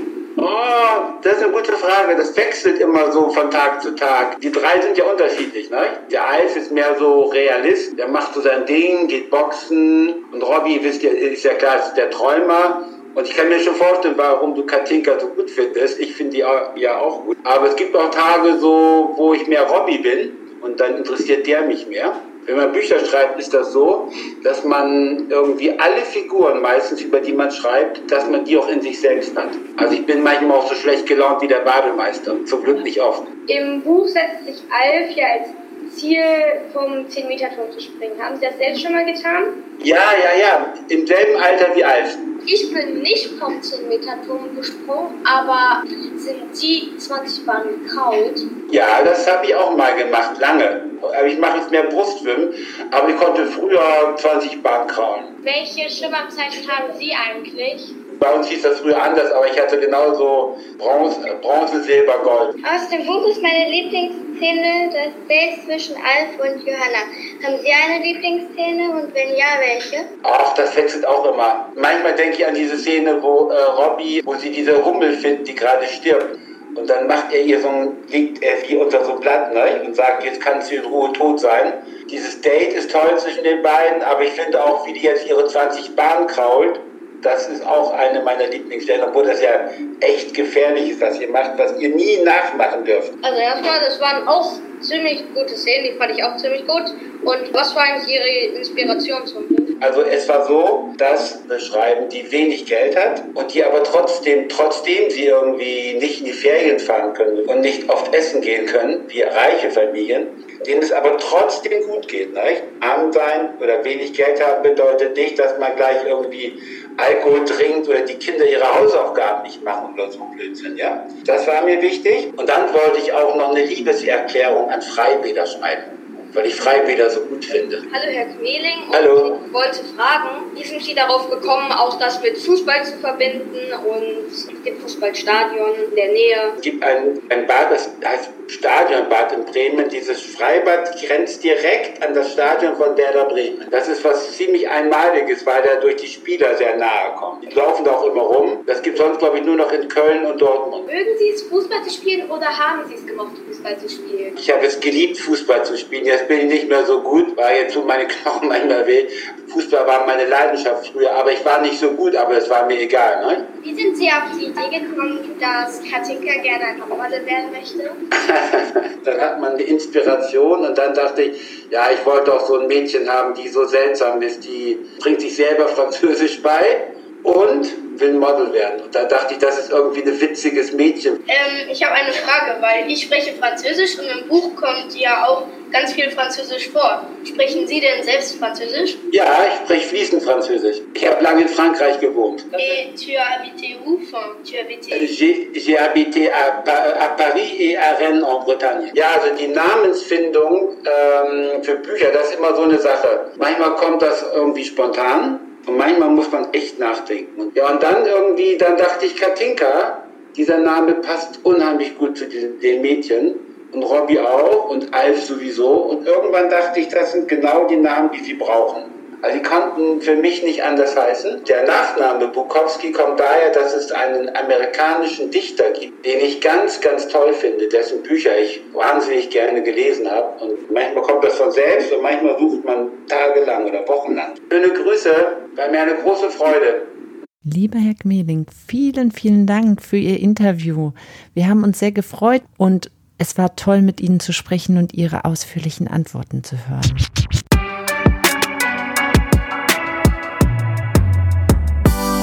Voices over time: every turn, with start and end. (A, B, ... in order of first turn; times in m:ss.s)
0:00.4-0:33.3 A
0:33.5-0:39.6 B
0:39.8-0:42.2 A
0:42.4-0:48.5 B
0:48.7-0:55.3 A
0:55.4-0:57.9 B
0:58.1-1:02.5 A
1:02.6-1:10.1 B
1:10.2-1:33.1 A
1:33.2-1:39.7 B
1:39.8-2:07.8 A
2:07.9-2:16.6 B
2:08.9-2:09.4 A
2:16.6-2:30.8 A
2:30.8-2:34.3 B
2:34.4-2:43.4 A
2:43.6-2:48.0 B
2:48.1-3:01.2 A
3:01.3-3:09.0 B
3:09.1-3:12.8 A
3:12.5-3:15.1 B
3:14.9-3:56.9 A
3:57.4-4:07.0 C